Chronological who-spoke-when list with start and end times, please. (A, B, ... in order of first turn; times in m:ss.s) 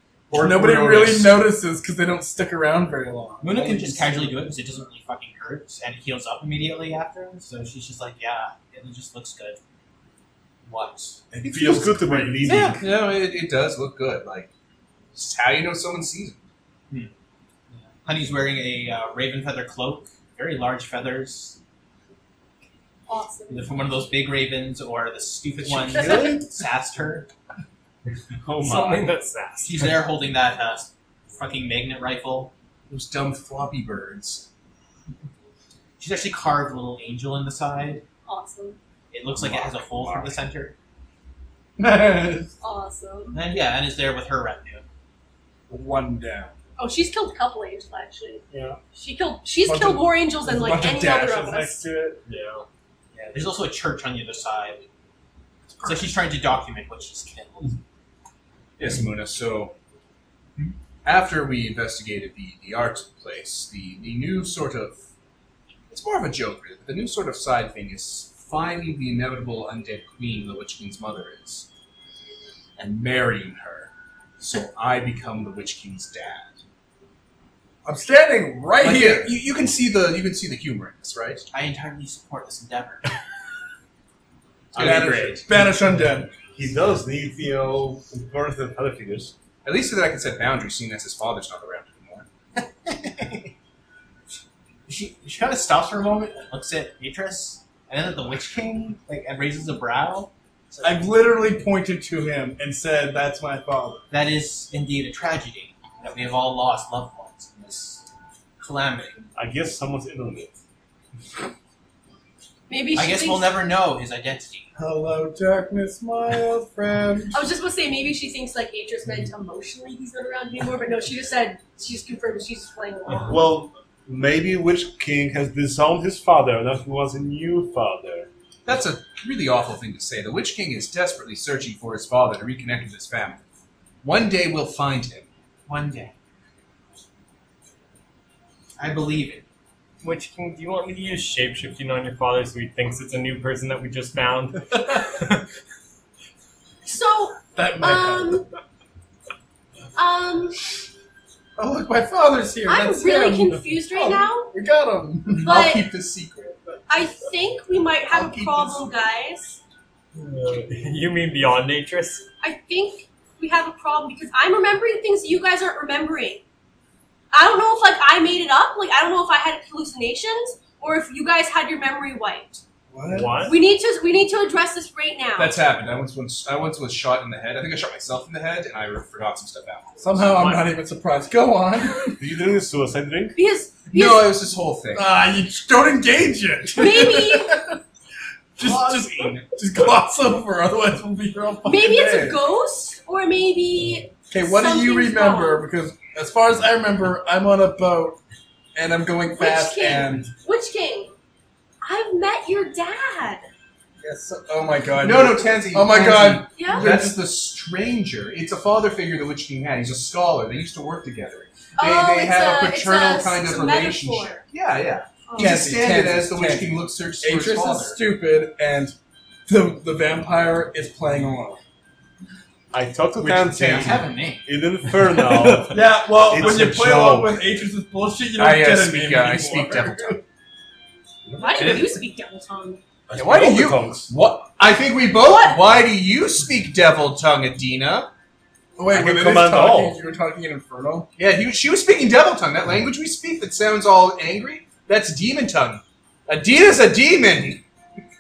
0:00.3-0:01.5 A
0:00.3-0:04.5 B
0:03.4-0:09.6 C
0:10.7-0:11.2 C
0:11.4-0:12.8 B
0:11.4-0:12.8 D
0:12.4-0:14.5 A
0:15.1-0:16.4 A
0:17.7-0:21.6 C
0:23.1-0:23.7 E
0:23.5-0:27.3 C
0:25.8-0:26.4 D
0:25.9-0:26.4 E
0:28.4-0:29.1 D
0:28.6-0:30.0 F
0:29.6-0:32.5 C
0:32.9-0:34.5 A
0:36.0-0:38.0 C
0:38.3-0:38.8 E
0:39.1-0:40.8 C
0:39.4-0:40.4 D
0:41.8-0:42.5 B
0:42.6-0:43.4 E
0:43.3-0:44.8 C
0:45.7-0:46.6 B
0:46.8-0:51.8 E
0:48.5-0:48.8 D
0:49.6-0:52.2 B
0:52.3-0:52.6 F
0:53.3-0:54.9 C
0:55.8-0:57.8 C
0:58.8-0:59.7 A
1:01.0-1:05.0 A
1:05.9-1:11.7 A
1:12.8-1:16.6 A
1:17.8-1:19.4 B
1:18.8-1:21.4 A
1:21.5-1:23.1 C
1:24.7-1:25.4 A
1:24.8-1:25.8 D
1:24.8-1:26.4 B
1:26.4-1:29.3 D
1:29.6-1:32.3 A
1:32.6-1:33.5 C
1:34.9-1:41.0 C
1:40.8-1:44.0 B
1:44.1-1:48.0 C
1:48.6-1:49.2 C
1:49.4-1:50.6 D
1:52.7-1:53.6 E
1:52.9-1:54.7 C
1:54.8-1:57.3 B
1:57.3-2:03.5 E
2:03.3-2:08.3 D
2:08.6-2:13.4 A
2:14.0-2:15.3 A
2:15.7-2:16.1 C
2:18.8-2:19.4 C
2:20.0-2:25.4 F
2:26.8-2:28.5 E
2:27.5-2:28.4 B
2:30.0-2:30.6 E
2:31.6-2:35.6 B
2:32.6-2:34.5 E
2:35.4-2:35.9 E
2:35.4-2:36.6 A
2:36.9-2:39.6 E
2:38.1-2:38.9 A
2:40.2-2:42.2 F
2:42.4-2:46.4 E
2:47.3-2:52.6 E
2:52.9-2:53.4 B
2:53.1-2:53.6 F
2:53.4-2:55.6 E
2:55.4-3:00.2 A
3:00.0-3:02.1 B
3:00.3-3:00.7 F
3:02.2-3:03.4 D
3:03.4-3:04.4 E
3:03.9-3:05.1 A
3:05.0-3:07.8 B
3:06.7-3:07.6 E
3:08.6-3:12.4 B
3:08.6-3:09.5 A
3:11.6-3:15.7 E
3:14.3-3:18.2 B
3:18.8-3:20.3 B
3:19.4-3:21.1 E
3:21.8-3:23.5 E
3:24.0-3:27.2 B
3:25.0-3:38.0 A
3:26.5-3:26.9 E
3:31.8-3:34.4 E
3:35.3-3:35.8 E
3:35.4-3:38.9 B
3:39.5-3:41.6 B
3:42.7-3:47.4 D
3:43.2-3:44.5 C
3:45.7-3:50.1 B
3:48.4-3:50.2 A
3:51.3-3:51.6 D
3:51.4-3:52.8 E
3:53.1-3:54.1 D
3:53.2-3:58.1 A
3:55.1-3:55.6 E
3:58.8-4:01.1 B
3:58.9-4:00.0 D
4:01.2-4:07.6 A